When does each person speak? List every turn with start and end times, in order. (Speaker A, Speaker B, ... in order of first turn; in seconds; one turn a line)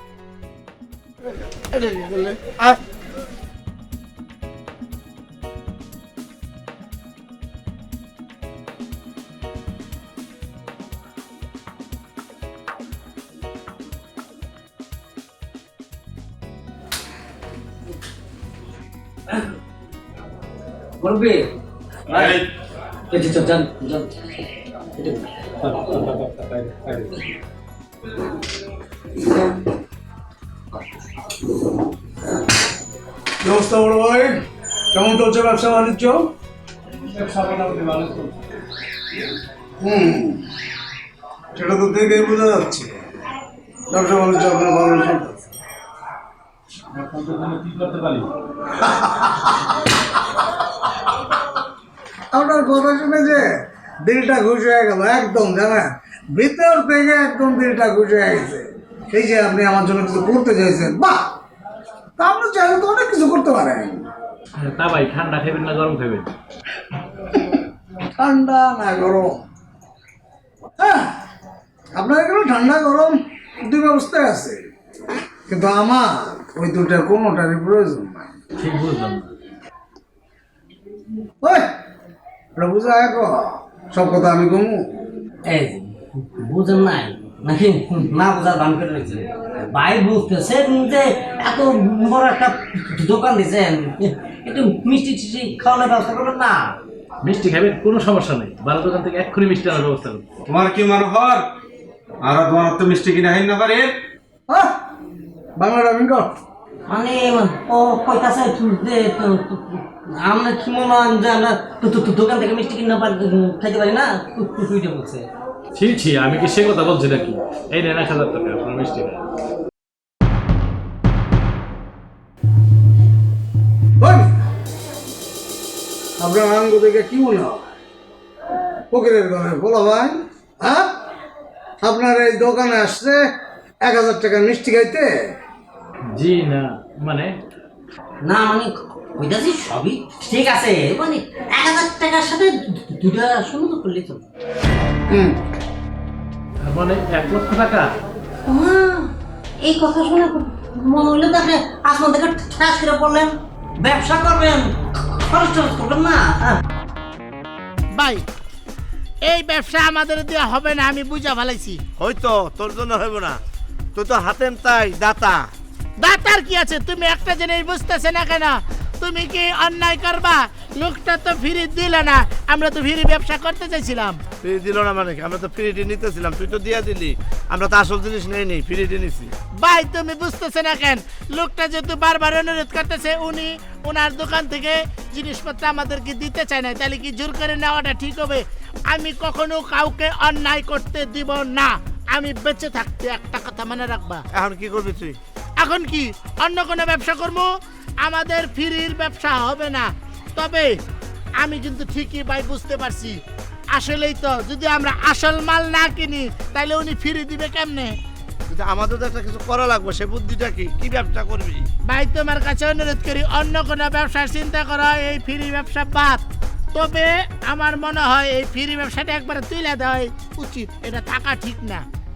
Speaker A: 1.7-2.8
Speaker B: 21.0-21.5
Speaker B: 22.1-22.4
Speaker C: 22.1-22.4
Speaker B: 23.1-24.1
Speaker B: 25.0-25.2
Speaker D: 33.4-34.4
Speaker D: 34.9-36.2
Speaker D: 39.8-40.4
Speaker D: 41.6-42.9
Speaker D: 43.9-45.5
Speaker E: 47.0-48.2
Speaker D: 48.7-50.0
Speaker D: 52.3-53.5
Speaker D: 54.0-61.3
Speaker D: 62.2-64.1
Speaker E: 64.6-66.3
Speaker D: 68.2-69.4
Speaker D: 70.8-71.1
Speaker D: 72.0-74.6
Speaker D: 75.5-78.3
Speaker E: 78.6-79.3
Speaker D: 81.4-81.7
Speaker D: 82.6-84.9
Speaker B: 85.5-96.6
Speaker E: 97.2-100.2
Speaker C: 100.5-101.4
Speaker C: 102.2-103.9
Speaker D: 104.5-104.7
Speaker D: 105.6-106.3
Speaker B: 106.9-115.2
Speaker E: 115.8-119.2
Speaker D: 124.0-124.3
Speaker D: 126.2-127.6
Speaker D: 128.9-130.9
Speaker D: 131.8-133.2
Speaker D: 133.8-135.1
Speaker E: 136.1-137.3
Speaker B: 138.2-144.2
Speaker D: 145.1-145.4
Speaker E: 146.7-147.9
Speaker B: 148.5-149.1
Speaker B: 149.6-156.6
Speaker F: 158.0-158.2
Speaker F: 159.3-161.8
Speaker A: 162.0-163.4
Speaker A: 163.9-165.4
Speaker F: 166.0-174.2
Speaker A: 174.4-179.3
Speaker F: 179.6-194.2
Speaker A: 194.3-195.2
Speaker F: 195.6-197.5
Speaker F: 198.0-200.8
Speaker F: 201.4-203.2
Speaker F: 203.7-208.0
Speaker A: 208.5-211.7
Speaker F: 211.9-216.2
Speaker F: 216.8-221.8